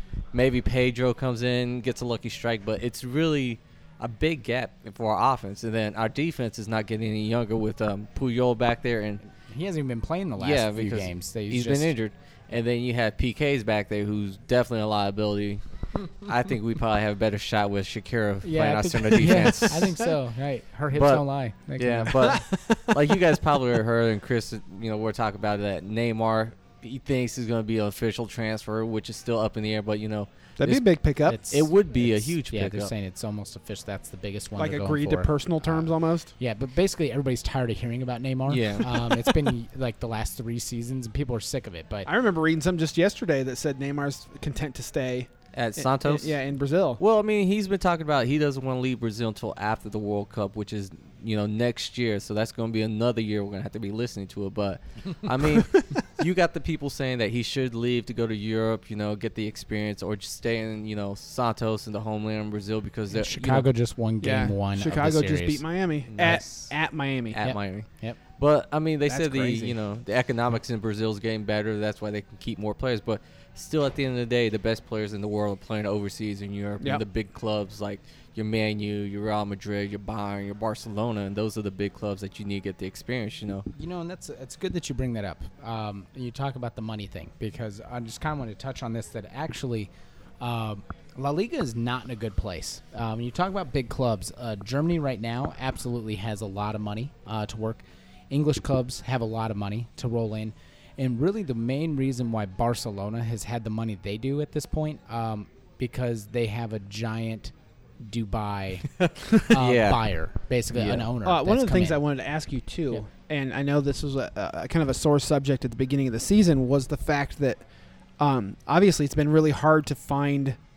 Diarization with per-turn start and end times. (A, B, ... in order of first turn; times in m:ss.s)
0:00.3-0:09.2 A
0:09.4-0:11.9 B
0:10.4-0:20.0 A
0:18.4-0:22.4 B
0:20.9-0:21.2 A
0:21.8-0:30.8 A
0:22.3-0:22.8 C
0:30.6-0:31.4 C
0:31.3-0:42.1 B
0:31.5-0:32.9 A
0:34.6-0:36.3 C
0:38.5-0:39.1 A
0:42.0-0:47.0 C
0:45.5-0:46.4 A
0:47.0-1:03.7 A
1:03.1-1:05.6 B
1:04.2-1:07.4 C
1:06.1-1:06.7 A
1:06.2-1:06.4 B
1:07.3-1:23.6 A
1:07.4-1:08.2 B
1:09.1-1:09.8 C
1:23.7-1:29.9 B
1:30.4-1:52.0 B
1:49.0-1:50.0 A
1:50.7-1:51.1 A
1:51.2-1:57.6 C
1:58.2-2:00.6 C